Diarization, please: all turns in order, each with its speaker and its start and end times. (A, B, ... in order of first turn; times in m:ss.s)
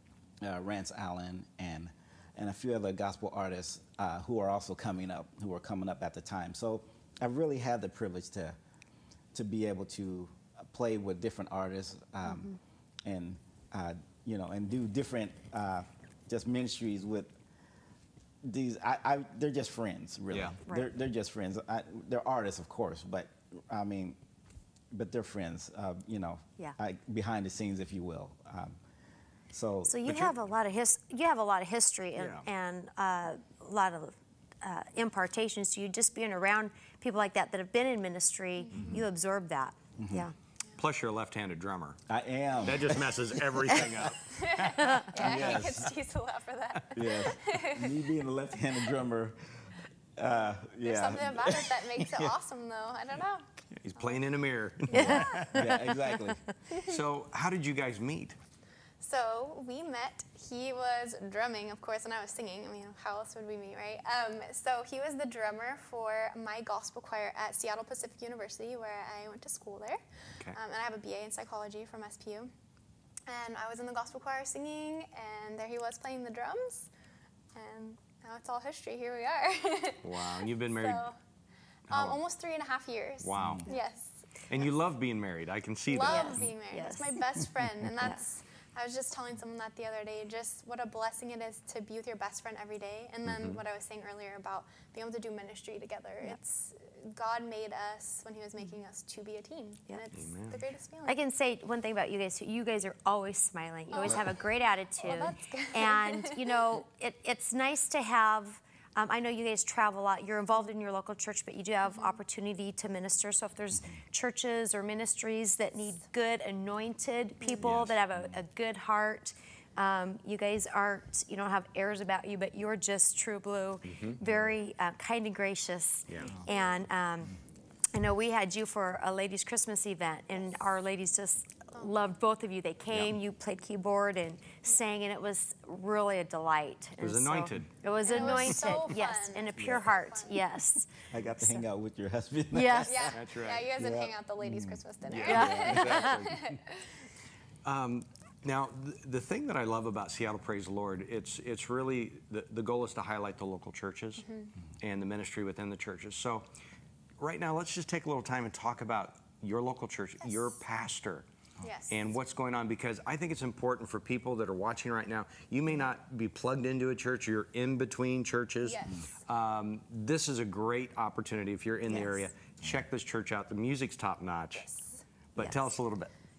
0:00.4-0:08.6 A
0:09.3-0:12.5 A
0:12.2-0:12.6 B
0:13.0-0:17.3 A
0:18.4-0:24.2 A
0:20.3-0:20.6 C
0:24.9-0:28.8 A
0:29.5-0:30.3 A
0:29.8-0:40.3 B
0:32.1-0:32.5 C
0:38.7-0:39.0 D
0:38.7-0:39.0 C
0:40.0-0:40.3 A
0:40.8-0:42.0 C
0:42.1-0:44.1 A
0:42.6-0:45.7 C
0:44.2-0:48.1 D
0:45.1-0:45.9 A
0:46.9-0:49.4 A
0:50.2-0:52.2 A
0:50.8-0:53.4 D
0:53.8-0:55.8 C
0:54.0-0:54.3 D
0:54.9-0:55.7 D
0:54.9-0:56.5 B
0:55.0-0:56.4 A
0:56.7-0:58.4 C
0:59.0-1:12.5 D
1:13.3-1:16.9 D
1:17.5-1:21.1 D
1:20.0-1:21.1 C
1:21.9-1:22.2 C
1:21.9-1:24.4 D
1:23.2-1:23.7 C
1:23.4-1:23.7 A
1:24.5-1:26.5 C
1:25.9-1:41.1 D
1:26.0-1:27.2 B
1:33.2-1:33.6 C
1:40.1-1:40.6 C
1:41.0-2:07.4 B
1:43.9-1:44.4 D
1:45.0-1:46.6 D
1:51.8-1:52.2 D
1:57.4-1:57.7 D
1:57.6-1:58.0 C
2:03.8-2:04.5 C
2:06.1-2:06.4 C
2:06.4-2:06.8 D
2:07.9-2:21.6 B
2:10.3-2:10.8 D
2:17.0-2:18.7 C
2:18.0-2:20.4 D
2:19.6-2:20.0 A
2:21.1-2:26.1 A
2:22.5-2:23.1 B
2:22.9-2:26.9 D
2:23.1-2:23.7 C
2:25.0-2:26.5 C
2:25.2-2:26.2 B
2:27.6-2:34.2 C
2:34.2-2:34.5 D
2:34.8-2:36.5 C
2:37.2-2:41.2 C
2:40.2-2:40.6 D
2:41.6-2:42.1 D
2:41.9-2:54.7 C
2:48.6-2:49.2 D
2:51.9-2:52.3 B
2:54.5-2:55.0 D
2:55.3-2:56.1 C
2:55.4-2:55.7 B